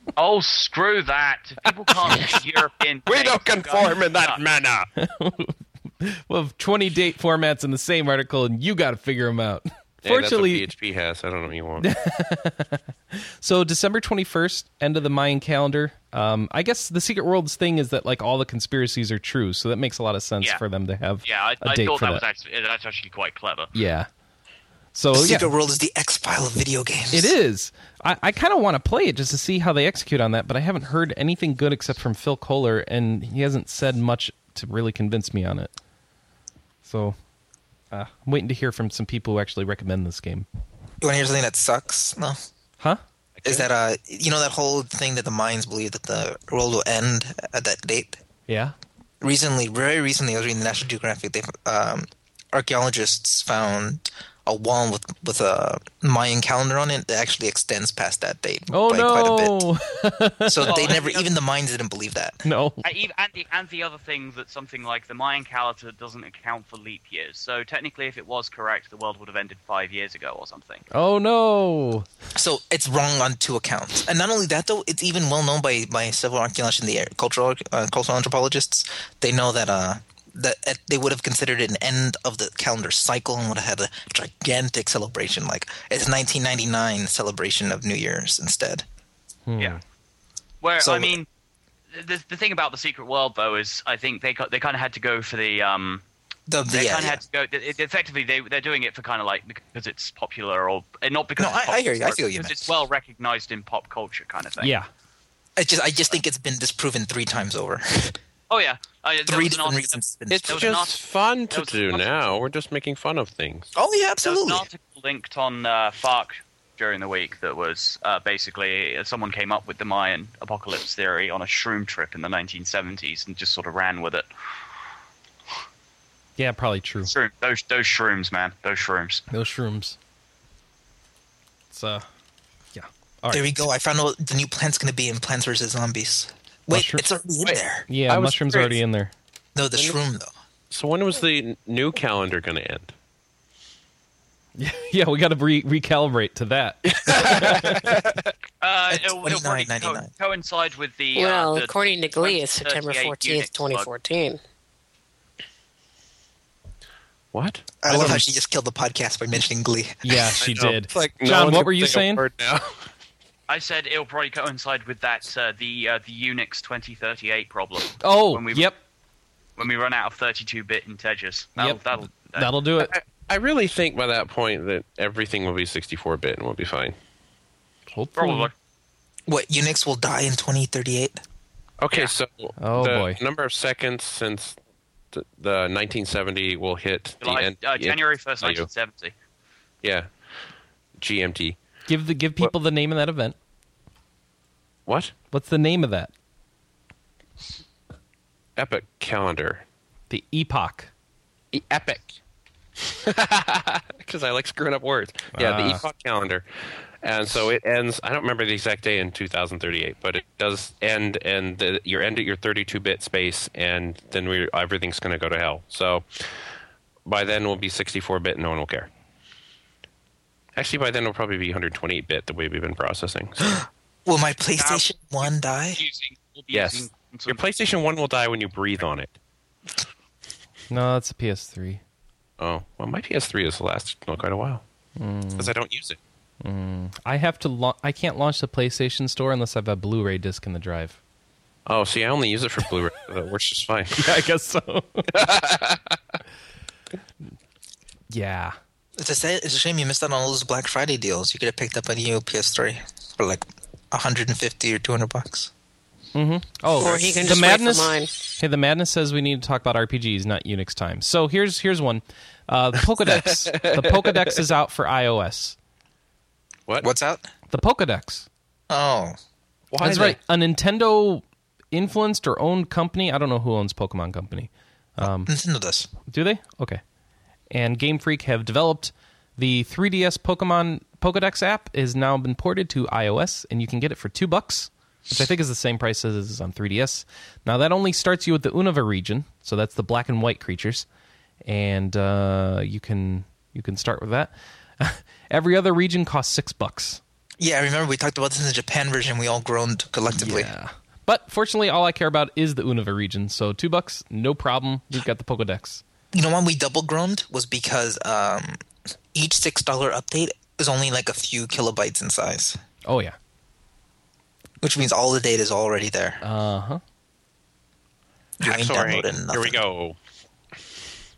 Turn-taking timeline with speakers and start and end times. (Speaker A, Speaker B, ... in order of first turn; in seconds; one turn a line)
Speaker A: 0.2-4.4
Speaker B: 1.7-2.5
Speaker B: 3.1-4.9
Speaker C: 5.0-10.7
Speaker B: 10.0-11.9
Speaker C: 11.8-22.2
Speaker A: 21.2-23.7
Speaker C: 23.7-24.1
Speaker C: 24.9-25.5
Speaker D: 25.1-27.3
Speaker C: 27.1-35.7
Speaker C: 36.8-37.2
Speaker C: 37.9-40.5
Speaker D: 41.0-42.4
Speaker D: 43.5-48.2
Speaker C: 48.5-48.7
Speaker D: 49.2-59.7
Speaker C: 58.7-60.8
Speaker D: 60.5-62.5
Speaker A: 60.6-61.3
Speaker C: 62.5-62.8
Speaker A: 62.8-70.8
Speaker C: 70.9-72.1
Speaker D: 72.3-88.8
Speaker C: 89.5-89.8
Speaker A: 90.6-91.3
Speaker D: 90.8-91.2
Speaker A: 91.9-96.0
Speaker D: 96.5-97.2
Speaker A: 96.7-104.7
Speaker D: 101.4-102.7
Speaker C: 104.6-104.9
Speaker D: 105.6-108.2
Speaker A: 108.5-112.1
Speaker D: 109.3-110.8
Speaker B: 110.3-113.7
Speaker D: 113.8-114.7
Speaker A: 114.2-124.3
Speaker C: 126.4-127.1
Speaker A: 127.1-129.2
Speaker C: 129.3-130.0
Speaker C: 131.7-132.1
Speaker C: 132.7-133.5
Speaker D: 133.3-137.9
Speaker C: 136.7-137.1
Speaker B: 137.4-138.8
Speaker C: 137.9-139.1
Speaker D: 139.6-140.3
Speaker B: 140.7-142.9
Speaker C: 144.6-147.9
Speaker B: 146.8-148.3
Speaker A: 148.6-153.9
Speaker D: 148.9-150.1
Speaker E: 151.2-154.4
Speaker B: 157.3-157.7
Speaker D: 157.8-160.0
Speaker C: 157.9-158.2
Speaker C: 160.0-162.3
Speaker B: 160.4-162.9
Speaker A: 163.5-168.7
Speaker C: 168.0-168.8
Speaker A: 169.6-172.6
Speaker C: 171.6-172.9
Speaker B: 172.8-176.9
Speaker C: 177.9-178.5
Speaker A: 178.2-178.5
Speaker D: 179.3-181.2
Speaker B: 181.8-184.6
Speaker C: 182.6-183.2
Speaker B: 185.1-188.7
Speaker A: 187.2-189.1
Speaker B: 189.8-190.1
Speaker B: 191.0-191.6
Speaker C: 191.9-193.3
Speaker B: 194.9-195.1
Speaker C: 195.3-196.1
Speaker B: 198.6-199.6
Speaker C: 200.1-200.9
Speaker B: 201.5-202.2
Speaker B: 202.8-216.4
Speaker C: 205.3-205.8
Speaker B: 217.1-218.9
Speaker B: 220.6-223.6
Speaker D: 223.5-225.8
Speaker A: 224.6-227.4
Speaker B: 226.5-229.2
Speaker C: 230.7-231.8
Speaker B: 232.4-234.6
Speaker C: 235.0-235.5
Speaker B: 235.4-236.0
Speaker C: 236.4-241.0
Speaker B: 241.7-244.3
Speaker C: 244.0-245.3
Speaker B: 245.1-246.2
Speaker C: 248.1-248.6
Speaker D: 249.0-255.5
Speaker C: 256.1-265.6
Speaker E: 256.8-258.1
Speaker B: 263.1-264.4
Speaker D: 266.8-267.3
Speaker C: 267.5-268.3
Speaker D: 268.7-269.2
Speaker B: 269.7-270.2
Speaker C: 269.8-275.3
Speaker D: 275.0-275.9
Speaker C: 276.1-276.8
Speaker C: 277.5-290.9
Speaker C: 291.4-297.0
Speaker D: 297.4-300.5
Speaker C: 300.1-305.8
Speaker D: 306.1-308.6
Speaker D: 309.1-312.6
Speaker C: 312.9-313.2
Speaker D: 314.6-316.2
Speaker C: 316.2-316.8
Speaker D: 318.4-319.6
Speaker B: 318.4-320.0